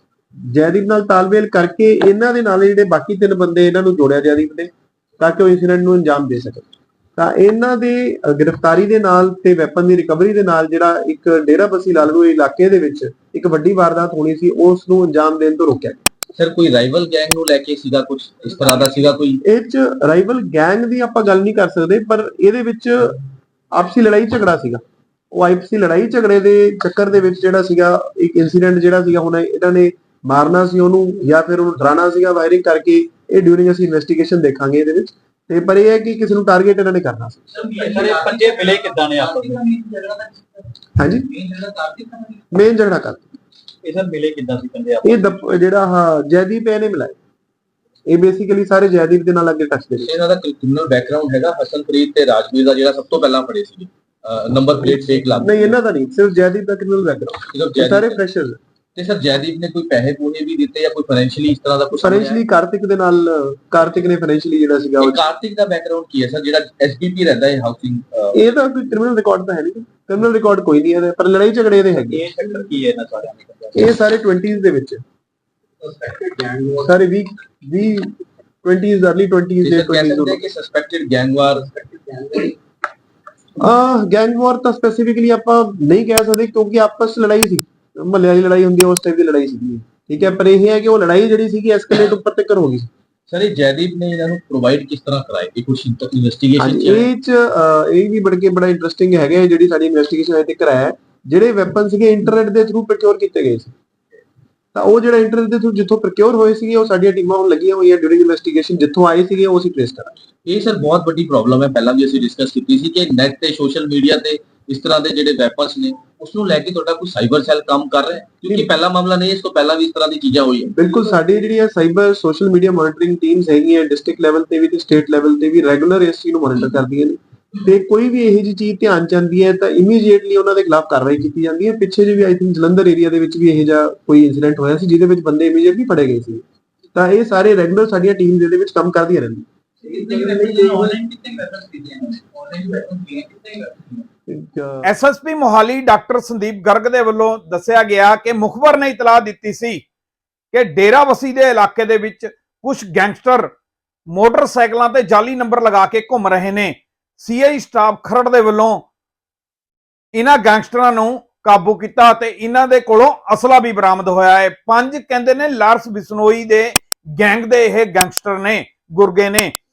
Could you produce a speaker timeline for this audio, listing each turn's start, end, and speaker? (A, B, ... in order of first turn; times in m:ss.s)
0:00.4-0:16.0 A
0:16.4-0:19.4 B
0:19.4-0:23.2 A
0:23.7-0:37.4 A
0:37.6-0:40.6 C
0:41.0-0:41.3 A
0:41.3-0:42.4 C
0:42.5-0:43.3 A
0:43.8-0:45.4 C
0:45.0-0:47.2 A
0:48.1-0:50.1 A
0:50.0-0:55.8 B
0:54.8-0:58.6 A
0:57.5-0:58.2 B
0:59.0-1:02.4 B
1:02.0-1:05.2 A
1:05.0-1:08.4 B
1:08.3-1:12.2 A
1:12.0-1:13.9 C
1:13.7-1:15.0 A
1:15.8-1:16.8 C
1:16.8-1:20.4 A
1:19.6-1:21.7 B
1:21.8-1:22.5 C
1:23.6-1:32.9 A
1:33.3-1:37.1 B
1:36.6-1:43.7 A
1:44.7-1:50.1 A
1:50.4-2:00.7 B
2:00.7-2:16.4 A
2:16.9-2:19.4 A
2:19.8-2:24.0 C
2:24.3-2:24.9 A
2:24.8-2:29.8 D
2:30.5-2:33.5 D
2:34.1-2:38.8 D
2:40.1-2:49.5 D